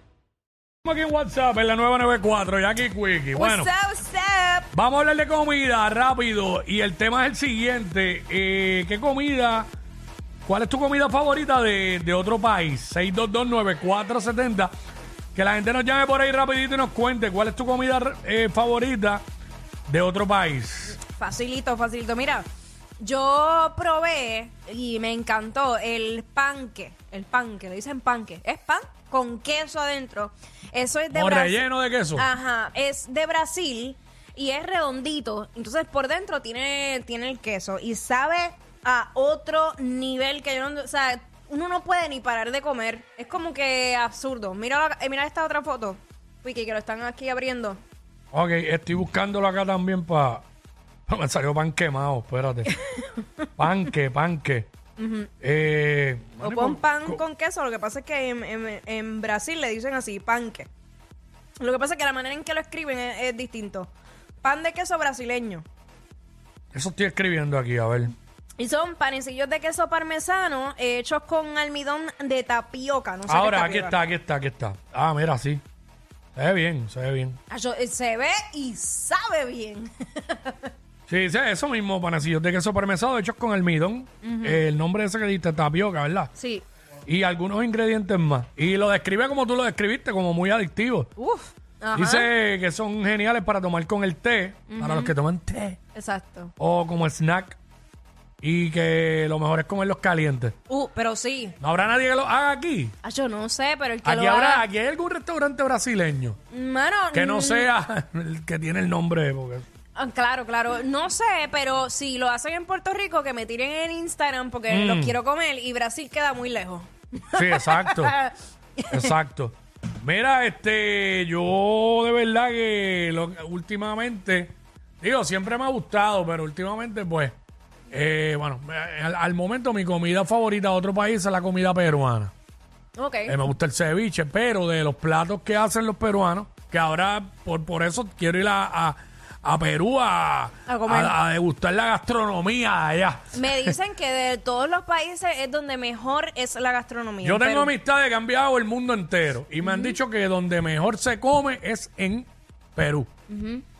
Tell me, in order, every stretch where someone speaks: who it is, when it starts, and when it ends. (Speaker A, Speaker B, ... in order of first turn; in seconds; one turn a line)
Speaker A: 0.8-3.7
Speaker B: 3.3-4.7
Speaker A: 4.7-9.7
Speaker A: 10.4-14.7
Speaker A: 15.3-19.2
Speaker A: 19.9-21.0
Speaker B: 21.0-22.4
Speaker B: 23.0-31.6
Speaker A: 31.1-32.3
Speaker B: 32.1-47.8
Speaker A: 48.3-50.4
Speaker A: 51.1-52.7
Speaker A: 53.6-54.7
Speaker B: 55.0-55.3
Speaker A: 55.4-57.2
Speaker B: 56.4-60.7
Speaker B: 61.6-63.9
Speaker B: 64.4-65.6
Speaker A: 66.7-68.1
Speaker B: 68.6-74.0
Speaker A: 73.3-75.6
Speaker A: 76.3-77.4
Speaker B: 77.5-80.7
Speaker A: 81.1-86.3
Speaker B: 84.2-84.6
Speaker B: 86.3-86.6
Speaker A: 87.0-91.1
Speaker B: 91.2-92.3
Speaker A: 91.9-95.8
Speaker B: 94.7-95.1
Speaker B: 95.9-96.5
Speaker A: 96.6-97.6
Speaker A: 98.4-100.5
Speaker B: 100.7-101.5
Speaker A: 101.6-102.9
Speaker B: 103.0-104.6
Speaker A: 104.0-106.4
Speaker B: 106.5-107.7
Speaker A: 107.1-109.7
Speaker B: 109.9-119.1
Speaker A: 114.7-115.2
Speaker A: 117.3-118.2
Speaker A: 118.9-127.3
Speaker A: 127.9-132.3
Speaker B: 132.9-133.3
Speaker A: 133.3-143.8
Speaker B: 140.7-141.1
Speaker B: 143.3-147.7
Speaker A: 147.2-153.1
Speaker B: 149.6-150.0
Speaker B: 153.3-153.6